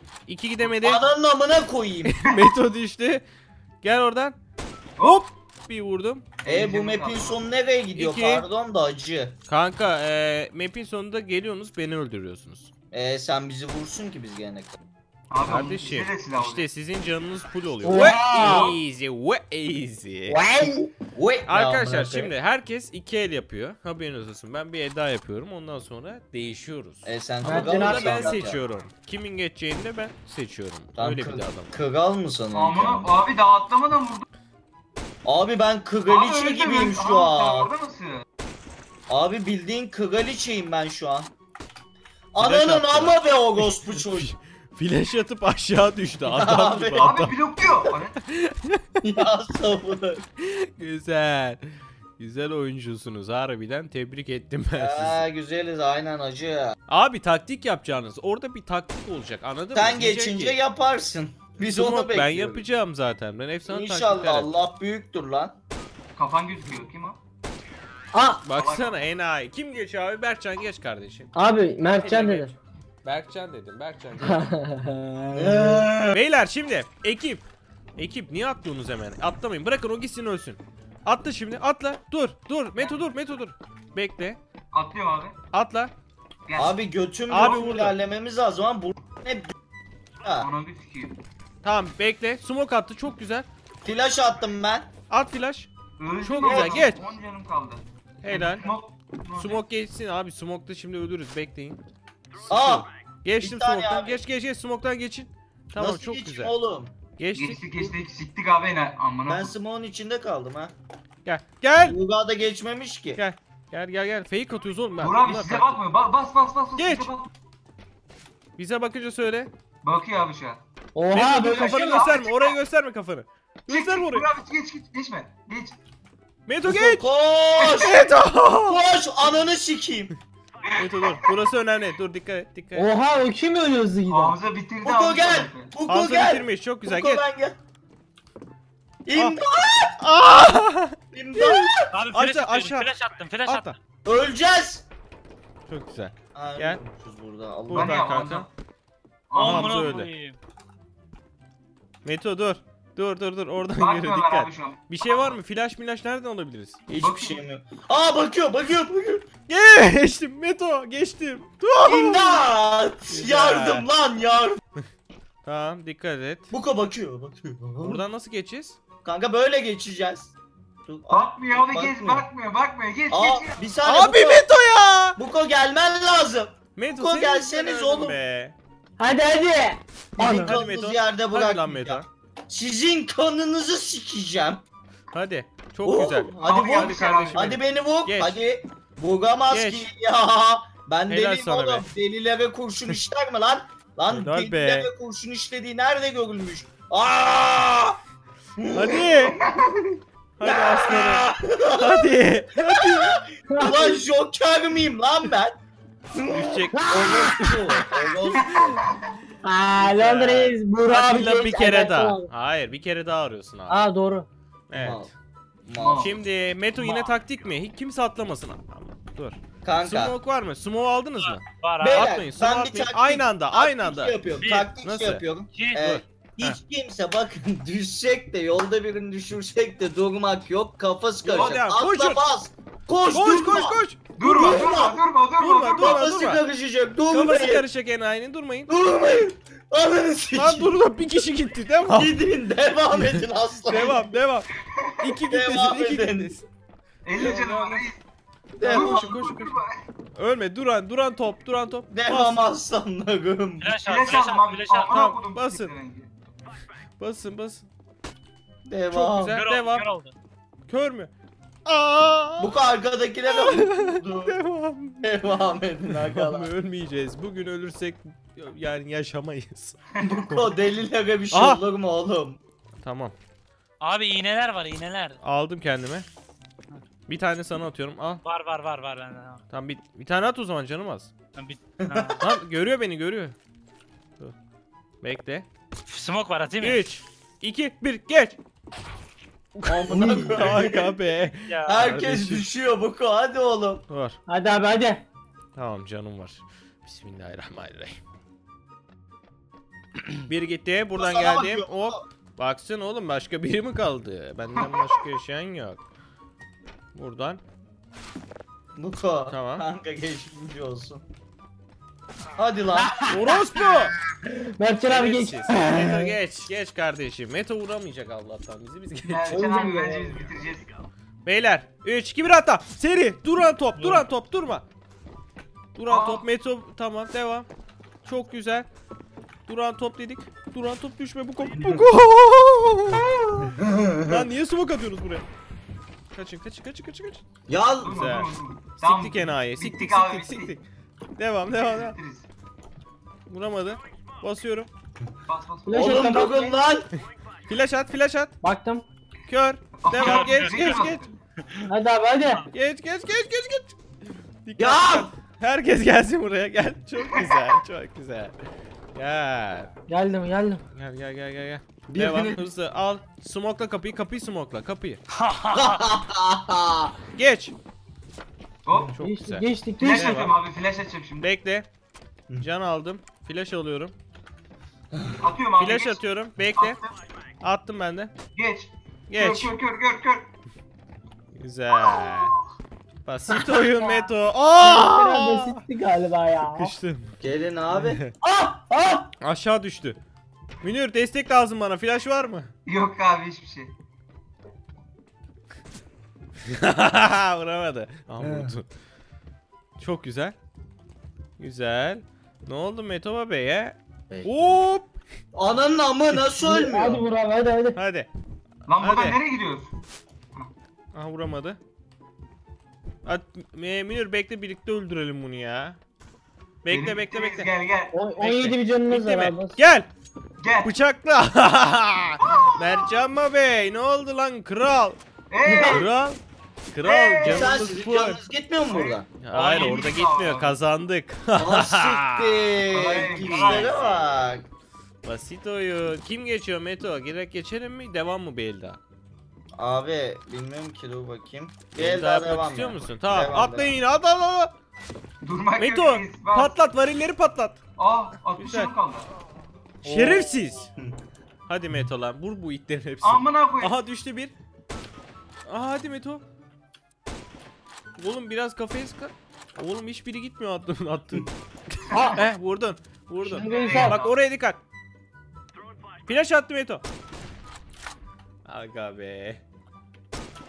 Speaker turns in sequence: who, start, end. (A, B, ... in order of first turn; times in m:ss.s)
0:00.3-0:01.0 A
0:00.7-0:02.2 B
0:02.0-0:03.2 A
0:03.8-0:04.4 A
0:05.0-0:06.3 A
0:06.4-0:07.4 C
0:06.4-0:09.4 B
0:08.0-0:08.5 A
0:09.5-0:12.7 A
0:12.9-0:14.8 B
0:15.3-0:16.6 C
0:15.4-0:20.4 A
0:17.8-0:18.7 D
0:18.1-0:18.7 B
0:20.3-0:20.9 D
0:20.6-0:22.3 B
0:21.4-0:31.7 A
0:27.0-0:28.6 B
0:27.4-0:28.4 D
0:31.0-0:33.1 B
0:32.5-0:34.2 C
0:35.2-0:37.7 B
0:36.1-0:38.2 C
0:39.1-0:41.3 B
0:42.3-0:44.3 B
0:42.4-0:47.4 A
0:46.3-0:47.1 B
0:46.9-0:48.2 C
0:48.2-0:48.8 A
0:49.0-0:50.2 B
0:50.4-0:51.6 A
0:52.2-0:55.3 A
0:54.7-0:56.7 B
0:56.9-1:00.6 A
0:59.7-1:02.6 B
1:01.7-1:04.5 A
1:03.6-1:05.5 B
1:06.2-1:07.2 C
1:08.1-1:08.4 D
1:08.4-1:11.3 A
1:08.5-1:09.0 C
1:11.3-1:12.5 D
1:12.0-1:12.5 A
1:13.0-1:14.5 A
1:14.2-1:15.9 D
1:15.3-1:16.2 B
1:16.1-1:17.4 A
1:18.0-1:24.4 A
1:24.7-1:25.4 C
1:25.5-1:25.9 A
1:26.5-1:26.8 C
1:26.6-1:29.5 B
1:27.3-1:27.9 A
1:27.4-1:27.7 C
1:30.2-1:30.5 B
1:30.4-1:31.2 C
1:31.6-1:33.5 A
1:33.8-1:34.9 B
1:35.1-1:35.7 A
1:36.0-1:39.6 C
1:36.2-1:37.0 A
1:36.4-1:36.9 B
1:38.2-1:38.6 A
1:39.4-1:41.8 A
1:42.4-1:46.5 A
1:42.5-1:42.8 B
1:43.4-1:44.2 B
1:45.8-1:46.9 B
1:47.2-1:47.6 A
1:47.3-1:49.5 C
1:49.3-1:50.7 B
1:51.2-1:52.0 A
1:51.8-1:53.2 B
1:53.2-1:55.8 A
1:55.0-1:57.3 C
1:56.8-1:57.1 A
1:58.6-1:59.5 A
1:59.8-2:00.6 C
2:01.0-2:01.7 D
2:01.1-2:04.3 A
2:01.3-2:02.6 C
2:03.7-2:05.8 C
2:06.5-2:07.1 A
2:06.6-2:08.0 B
2:07.6-2:07.8 C
2:07.7-2:08.8 A
2:08.6-2:10.1 B
2:10.7-2:11.2 C
2:10.8-2:12.9 A
2:12.7-2:14.4 D
2:14.1-2:15.7 C
2:14.8-2:17.6 B
2:15.9-2:17.2 A
2:19.0-2:20.0 B
2:20.0-2:22.9 A
2:21.1-2:21.9 B
2:21.9-2:23.8 E
2:23.4-2:23.7 A
2:24.0-2:24.8 B
2:25.7-2:26.8 A
2:26.3-2:28.0 B
2:27.7-2:28.5 A
2:27.7-2:28.5 C
2:29.3-2:30.0 C
2:29.3-2:30.4 E
2:29.4-2:30.1 A
2:32.0-2:36.9 A
2:33.7-2:35.3 C
2:36.9-2:39.3 B
2:37.0-2:37.4 C
2:39.5-2:42.4 A
2:41.8-2:44.6 B
2:43.1-2:43.9 A
2:45.4-2:46.5 A
2:46.5-2:48.0 B
2:47.8-2:48.8 A
2:49.0-2:50.3 B
2:50.9-2:52.2 B
2:51.1-2:53.7 C
2:53.1-2:54.4 B
2:53.8-2:55.2 A
2:55.2-2:58.2 B
2:56.8-2:58.5 A
2:59.0-3:00.6 D
3:00.2-3:04.6 B
3:00.2-3:02.1 A
3:05.1-3:08.4 A
3:05.8-3:18.0 B
3:06.4-3:07.6 C
3:09.5-3:09.9 A
3:11.1-3:11.9 A
3:14.1-3:14.9 A
3:18.6-3:19.0 B
3:18.7-3:19.4 A
3:19.3-3:20.0 C
3:20.4-3:23.2 A
3:20.4-3:25.6 B
3:23.5-3:23.9 D
3:26.1-3:28.8 B
3:26.2-3:26.9 A
3:26.7-3:27.8 D
3:28.3-3:29.1 C
3:29.4-3:32.3 D
3:29.7-3:33.8 A
3:33.7-3:34.3 D
3:34.7-3:35.1 A
3:34.7-3:35.1 B
3:35.6-3:36.1 B
3:35.8-3:36.1 C
3:36.0-3:44.2 A
3:36.8-3:37.0 C
3:39.6-3:40.2 B
3:41.2-3:42.1 E
3:41.8-3:55.0 B
3:44.3-3:44.7 E
3:44.8-3:45.3 A
3:45.5-3:46.0 E
3:45.9-3:46.6 A
3:51.2-3:51.6 C
3:51.3-3:52.2 A
3:53.1-3:54.0 A
3:54.2-3:56.1 C
3:55.4-3:56.4 A
3:55.8-3:57.6 B
3:57.1-3:58.7 A
3:58.7-4:00.8 B
4:00.3-4:02.2 A
4:01.9-4:04.0 B
4:03.7-4:06.4 A
4:05.3-4:06.4 B
4:07.0-4:08.0 C
4:07.2-4:07.9 A
4:08.6-4:09.2 B
4:08.6-4:09.6 A
4:08.6-4:09.7 C
4:10.2-4:12.5 A
4:11.9-4:13.7 B
4:13.6-4:15.0 E
4:13.8-4:16.1 C
4:14.9-4:15.7 A
4:17.0-4:17.7 A
4:18.6-4:19.4 B
4:18.9-4:19.9 A
4:19.3-4:20.1 E
4:20.7-4:21.1 A
4:21.6-4:22.6 A
4:22.4-4:24.4 B
4:23.3-4:25.1 A
4:25.0-4:26.5 B
4:25.8-4:30.4 A
4:30.0-4:32.4 B
4:31.3-4:31.6 A
4:32.8-4:33.1 A
4:33.8-4:35.2 E
4:35.2-4:36.0 A
4:37.1-4:38.2 A
4:38.2-4:39.4 E
4:39.5-4:41.1 A
4:41.3-4:42.2 E
4:41.8-4:42.2 B
4:42.2-4:43.4 A
4:45.0-4:45.4 A
4:45.9-4:46.8 E
4:46.6-4:48.4 A
4:49.6-4:52.5 A
4:49.6-4:51.0 B
4:51.5-4:51.9 E
4:51.6-4:53.8 B
4:53.9-4:54.2 A
4:54.3-4:55.0 D
4:55.6-4:58.0 A
5:00.3-5:05.8 A
5:01.0-5:02.0 B
5:06.9-5:07.4 A
5:08.8-5:11.0 B
5:09.3-5:09.6 A
5:12.4-5:13.0 B
5:12.8-5:13.3 D
5:13.1-5:13.9 A
5:14.3-5:16.1 D
5:14.8-5:19.3 A
5:19.0-5:20.7 C
5:19.3-5:20.2 D
5:21.2-5:24.6 A
5:23.8-5:24.0 E
5:25.8-5:27.5 A
5:25.9-5:26.2 C
5:28.0-5:28.7 A
5:29.5-5:33.5 A
5:31.6-5:31.8 B
5:33.5-5:34.2 B
5:34.0-5:35.2 A
5:36.1-5:37.2 A
5:37.5-5:38.0 B
5:37.8-5:40.6 C
5:37.9-5:40.6 A
5:41.2-5:42.0 A
5:41.5-5:42.3 C
5:43.3-5:44.7 A
5:45.3-5:46.5 C
5:45.6-5:46.5 D
5:45.7-5:46.9 B
5:47.5-5:48.3 A
5:48.4-5:48.8 D
5:49.3-5:51.1 A
5:49.8-5:51.1 C
5:50.1-5:50.9 E
5:51.7-5:52.4 D
5:52.5-5:53.8 A
5:54.4-5:58.4 A
5:54.6-5:55.1 B
5:58.9-5:59.7 A
5:59.9-6:00.6 D
6:00.7-6:05.0 A
6:01.9-6:02.5 B
6:05.1-6:05.8 E
6:05.5-6:06.9 B
6:07.1-6:07.5 A
6:08.6-6:08.9 C
6:08.9-6:10.3 A
6:09.0-6:10.1 D
6:09.8-6:11.3 C
6:11.2-6:11.7 A
6:12.4-6:13.9 A
6:15.2-6:16.0 C
6:15.6-6:16.8 A
6:16.6-6:16.9 C
6:17.4-6:18.1 A
6:18.3-6:20.3 C
6:19.1-6:19.5 A
6:21.4-6:22.3 A
6:21.8-6:22.2 C
6:23.0-6:25.6 A
6:24.6-6:26.8 D
6:26.4-6:27.2 A
6:27.2-6:28.1 B
6:27.7-6:28.1 A
6:28.2-6:29.0 D
6:29.2-6:30.0 A
6:30.6-6:32.5 A
6:32.6-6:33.7 C
6:36.4-6:38.7 A
6:38.2-6:38.5 B
6:39.8-6:40.3 A
6:41.4-6:44.9 A
6:44.1-6:44.6 B
6:45.3-6:47.0 B
6:46.1-6:47.8 D
6:47.7-6:48.1 A
6:48.7-6:49.2 A
6:48.7-6:49.7 C
6:50.9-6:51.6 A
6:53.0-6:55.8 A
6:56.6-6:57.5 A
6:56.7-6:58.4 C
6:57.9-6:59.6 D
6:58.3-6:59.9 A
7:00.4-7:00.7 C
7:00.6-7:05.0 A
7:02.2-7:02.9 C
7:05.3-7:05.9 C
7:05.4-7:05.9 B
7:05.6-7:06.2 A
7:06.7-7:08.2 A
7:06.8-7:07.6 C
7:07.2-7:09.1 B
7:08.7-7:10.5 C
7:09.2-7:12.6 A
7:11.3-7:14.4 B
7:12.7-7:14.0 C
7:13.2-7:14.3 A
7:15.0-7:18.8 A
7:19.6-7:23.8 B
7:21.8-7:24.5 A
7:25.2-7:26.5 C
7:25.6-7:27.6 A
7:27.8-7:29.1 C
7:28.4-7:28.7 A
7:29.8-7:30.7 A
7:31.5-7:34.3 A
7:33.0-7:33.8 C
7:35.5-7:36.2 A
7:38.0-7:44.6 A
7:41.9-7:42.2 D
7:43.2-7:44.0 D
7:43.2-7:44.1 C
7:46.0-7:46.8 A
7:48.4-7:49.4 A